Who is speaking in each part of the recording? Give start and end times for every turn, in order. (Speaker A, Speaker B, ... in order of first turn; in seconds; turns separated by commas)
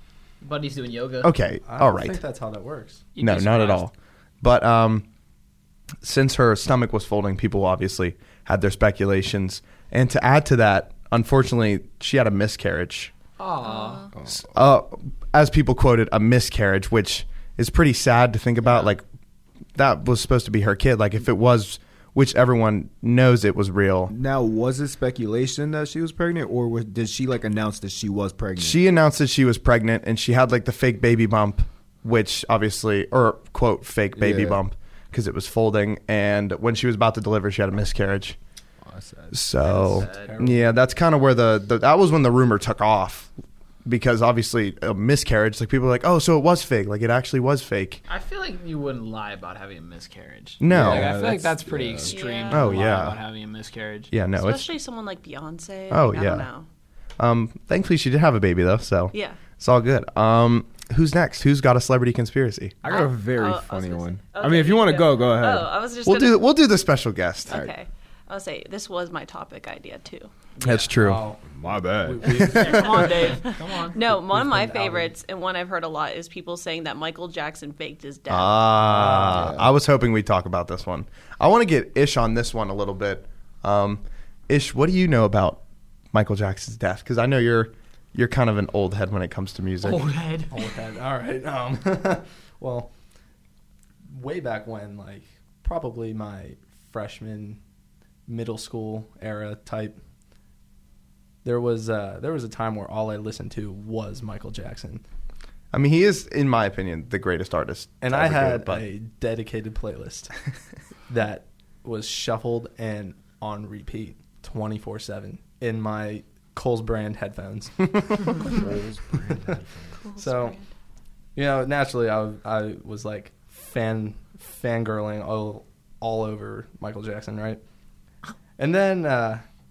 Speaker A: 0.4-1.3, Speaker B: 1.2-2.2, Speaker C: 1.7-3.0, Speaker A: 3.1-3.8, Speaker B: 3.2-5.1, Speaker B: 6.0-13.1, Speaker A: 13.4-14.1, Speaker D: 13.6-14.1, Speaker E: 14.2-14.4, Speaker B: 14.3-19.0, Speaker B: 19.8-24.1, Speaker E: 24.1-28.8, Speaker B: 28.6-38.4, Speaker E: 34.2-34.6, Speaker E: 38.8-39.4, Speaker B: 39.3-43.3, Speaker A: 39.6-40.5, Speaker C: 40.2-40.7, Speaker B: 43.9-48.0, Speaker A: 48.1-54.1, Speaker B: 50.6-51.2, Speaker E: 50.7-52.1, Speaker D: 52.0-52.9, Speaker B: 52.5-53.2, Speaker B: 54.1-54.7, Speaker D: 54.4-56.7, Speaker B: 55.9-56.5, Speaker B: 57.2-62.8, Speaker D: 59.1-59.5, Speaker E: 62.8-65.7, Speaker D: 62.9-66.4, Speaker B: 66.0-67.6, Speaker D: 67.5-70.3, Speaker A: 70.6-70.9, Speaker B: 70.6-71.2, Speaker C: 71.0-73.4, Speaker E: 71.5-72.4, Speaker B: 72.2-73.1, Speaker A: 72.5-74.0, Speaker D: 72.7-78.7, Speaker C: 74.1-75.1, Speaker B: 78.3-85.6, Speaker C: 78.8-79.7, Speaker B: 86.1-90.1, Speaker A: 89.8-90.5, Speaker C: 90.5-92.9, Speaker C: 94.1-97.6, Speaker C: 98.3-100.0, Speaker C: 101.4-105.0, Speaker B: 105.7-108.8, Speaker C: 108.0-110.3, Speaker C: 111.1-118.1, Speaker E: 118.5-119.9, Speaker D: 120.0-120.7, Speaker C: 120.2-120.6, Speaker C: 121.3-127.6, Speaker C: 128.6-129.4